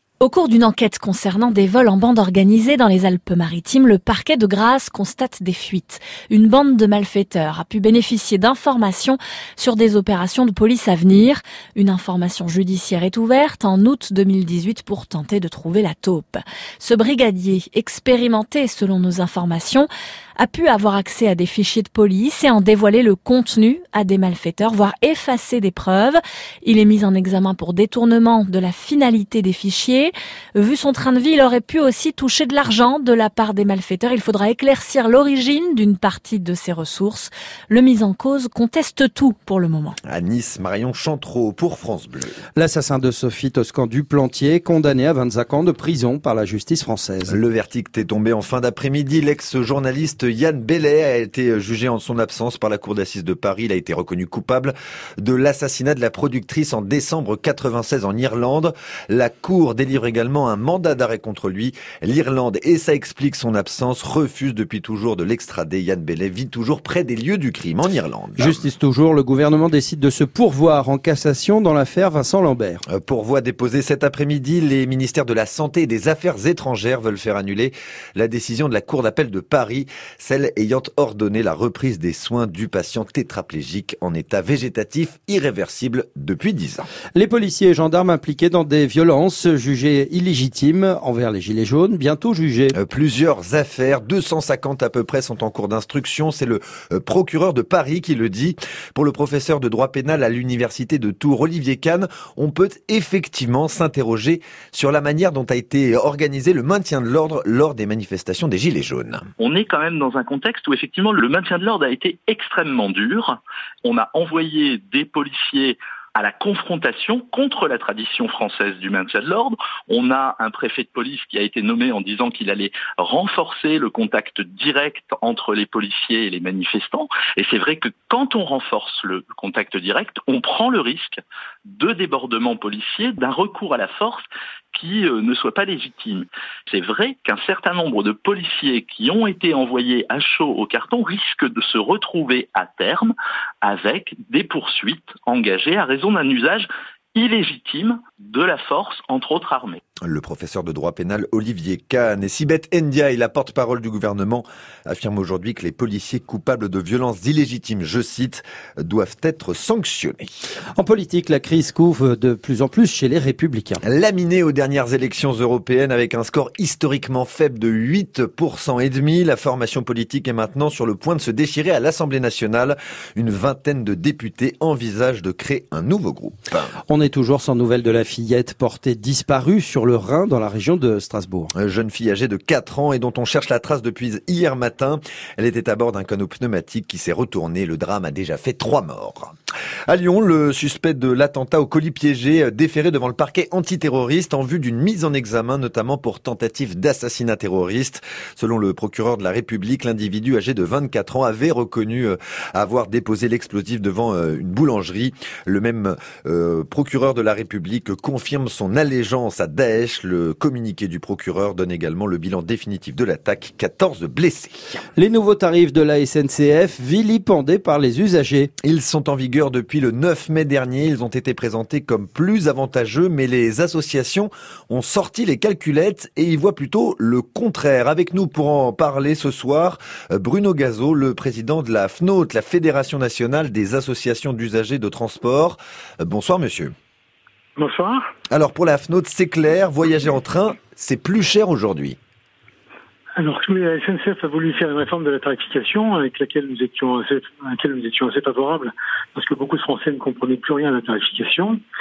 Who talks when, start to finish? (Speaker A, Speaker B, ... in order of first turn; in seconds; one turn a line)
Speaker A: 0.2-40.0
Speaker B: 40.1-42.3
Speaker C: 42.6-47.4
Speaker B: 47.3-68.6
Speaker C: 68.4-72.8
Speaker B: 72.9-86.9
Speaker C: 87.2-92.8
Speaker B: 92.7-109.3
Speaker D: 109.4-149.8
Speaker B: 150.0-160.3
Speaker C: 160.8-163.8
Speaker B: 163.8-176.7
Speaker C: 176.9-181.5
Speaker B: 181.6-189.3
Speaker B: 189.9-214.8
Speaker C: 215.0-218.5
Speaker B: 218.6-236.7
Speaker E: 237.6-238.1
Speaker B: 238.3-242.0
Speaker E: 243.2-251.6